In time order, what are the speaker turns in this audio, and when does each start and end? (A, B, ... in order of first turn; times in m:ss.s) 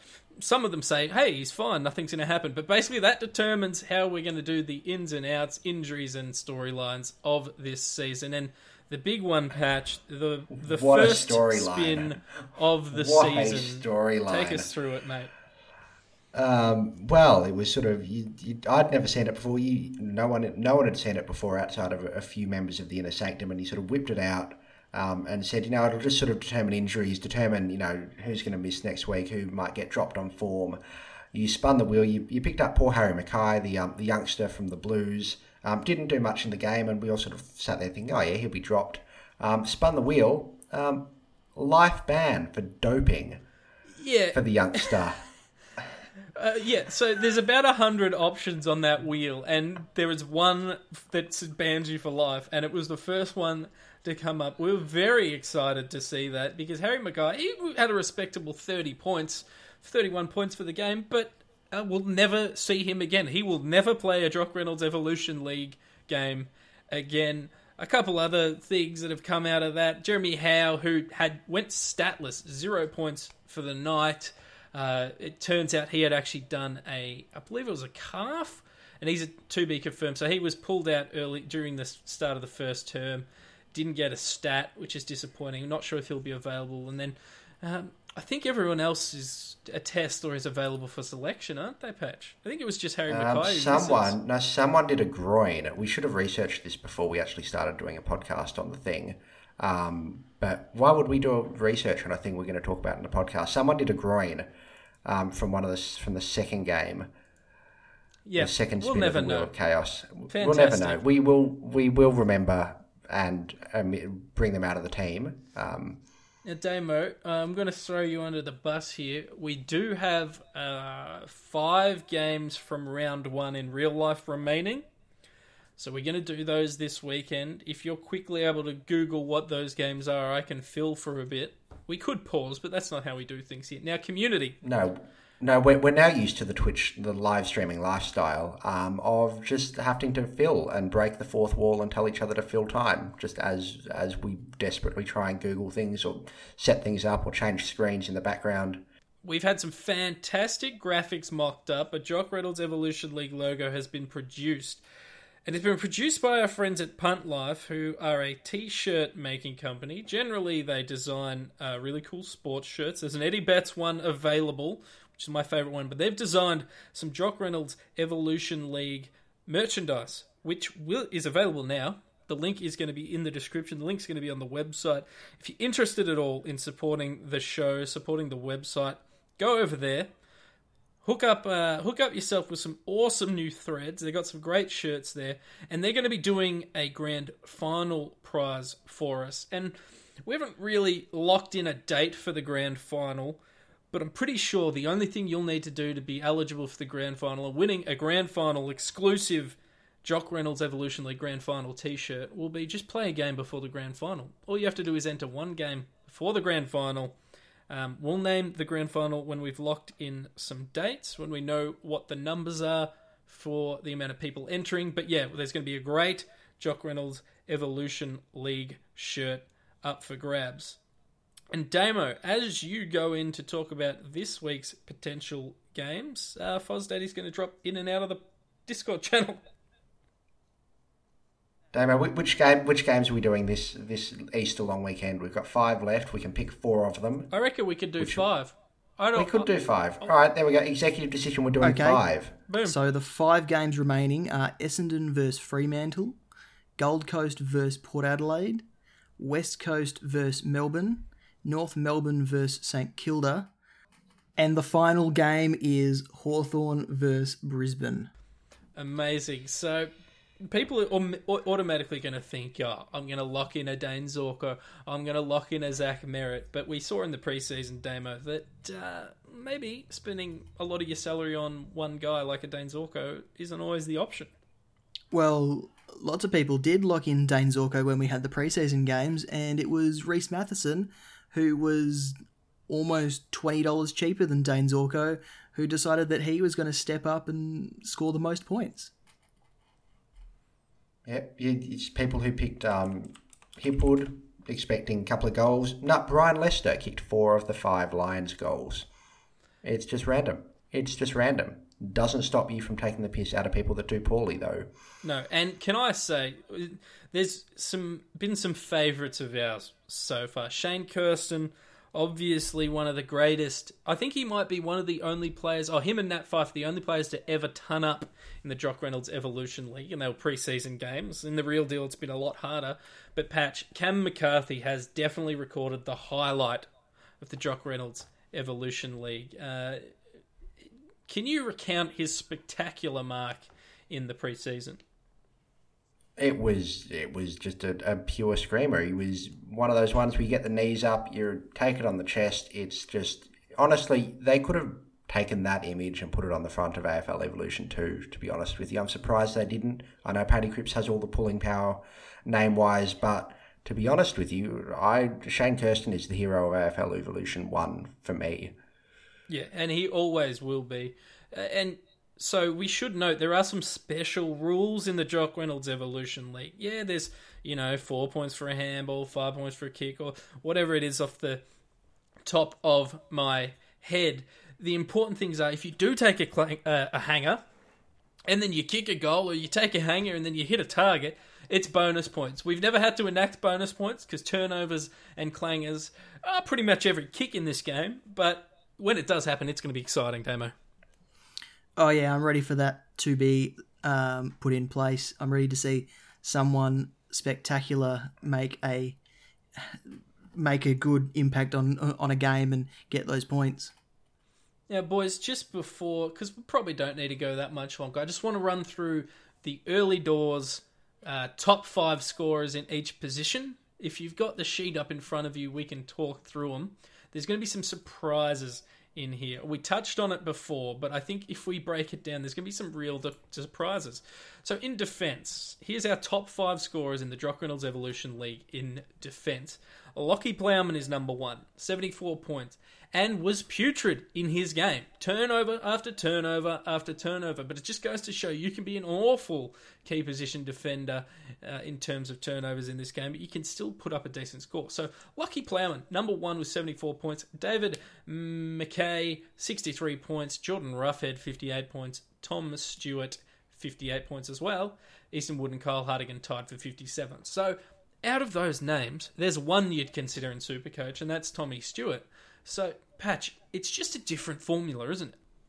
0:00.4-0:15.3 A
0:10.5-0:14.7 B
0:16.3-0:30.8 B
0:31.3-0:43.4 B
0:44.0-0:45.0 A
0:44.3-0:45.2 B
0:46.4-1:34.2 A
1:33.1-1:44.5 B
1:45.0-1:47.1 B
1:48.3-1:49.5 A
1:48.4-1:56.0 B
1:50.3-1:51.0 A
1:56.4-2:04.8 A
2:05.8-2:14.6 A
2:14.6-2:28.8 B
2:29.2-2:34.8 A
2:35.4-3:00.1 A
3:01.0-3:27.2 A
3:27.7-3:40.8 A
3:41.5-3:49.4 A
3:51.7-3:57.3 B
3:57.3-3:59.5 A
3:58.0-3:58.2 B
3:59.2-4:02.4 B
4:01.6-4:02.0 C
4:02.5-4:02.8 A
4:02.6-4:06.2 C
4:06.8-4:08.6 C
4:09.2-4:13.5 C
4:14.4-4:18.1 C
4:18.8-4:19.9 A
4:20.4-4:34.3 A
4:35.1-4:42.2 C
4:42.7-4:48.9 C
4:51.1-4:58.9 B
4:59.6-5:04.7 B
5:05.0-5:26.7 A
5:27.2-5:29.9 A
5:31.1-5:34.8 A
5:36.2-5:58.6 B
5:59.3-6:11.4 A
6:12.2-6:17.4 A
6:18.3-6:30.5 A
6:31.8-6:39.0 C
6:39.6-6:43.7 C
6:44.7-7:45.2 A